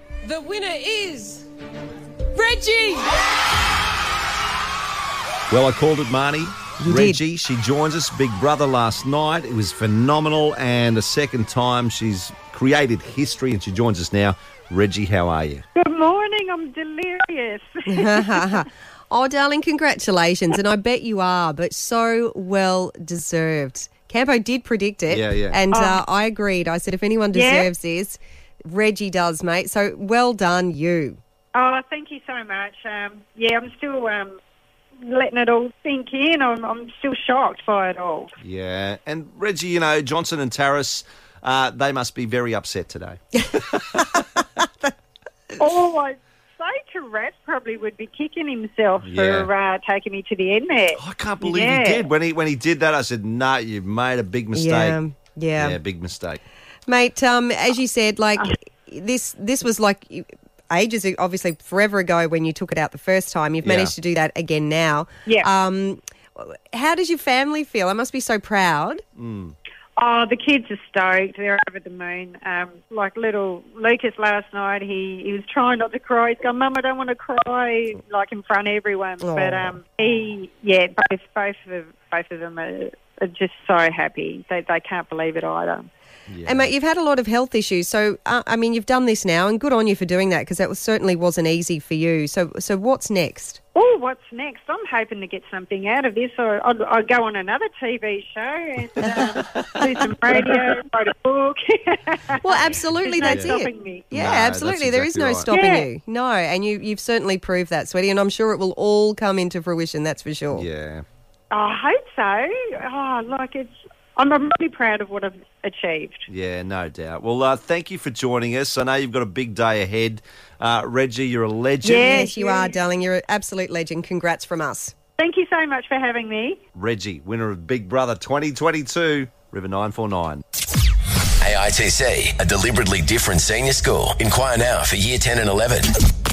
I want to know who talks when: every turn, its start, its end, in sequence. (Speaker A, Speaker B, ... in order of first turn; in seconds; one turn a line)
Speaker A: 0.2-1.5
Speaker A: 2.4-3.1
Speaker B: 5.5-15.6
Speaker C: 6.8-7.2
Speaker D: 15.8-18.3
Speaker C: 17.9-31.2
Speaker B: 25.1-25.6
Speaker D: 25.7-26.0
Speaker D: 27.3-27.7
Speaker D: 31.5-34.4
Speaker D: 35.0-38.3
Speaker B: 38.4-43.8
Speaker D: 45.6-52.1
Speaker B: 49.0-49.5
Speaker B: 51.0-55.0
Speaker C: 54.5-55.8
Speaker B: 55.6-56.4
Speaker C: 56.9-69.0
Speaker B: 63.6-63.9
Speaker B: 69.2-69.5
Speaker D: 70.0-85.9
Speaker C: 79.2-79.8
Speaker B: 86.3-86.7
Speaker C: 86.4-93.6
Speaker D: 93.7-104.1
Speaker C: 102.4-110.7
Speaker B: 103.2-103.5
Speaker B: 104.1-105.5
Speaker D: 105.5-105.9
Speaker B: 110.5-111.0
Speaker D: 111.5-116.3
Speaker B: 116.3-122.1
Speaker D: 121.8-122.8
Speaker C: 121.8-124.9
Speaker D: 125.2-126.6
Speaker B: 126.8-130.4
Speaker E: 131.4-135.9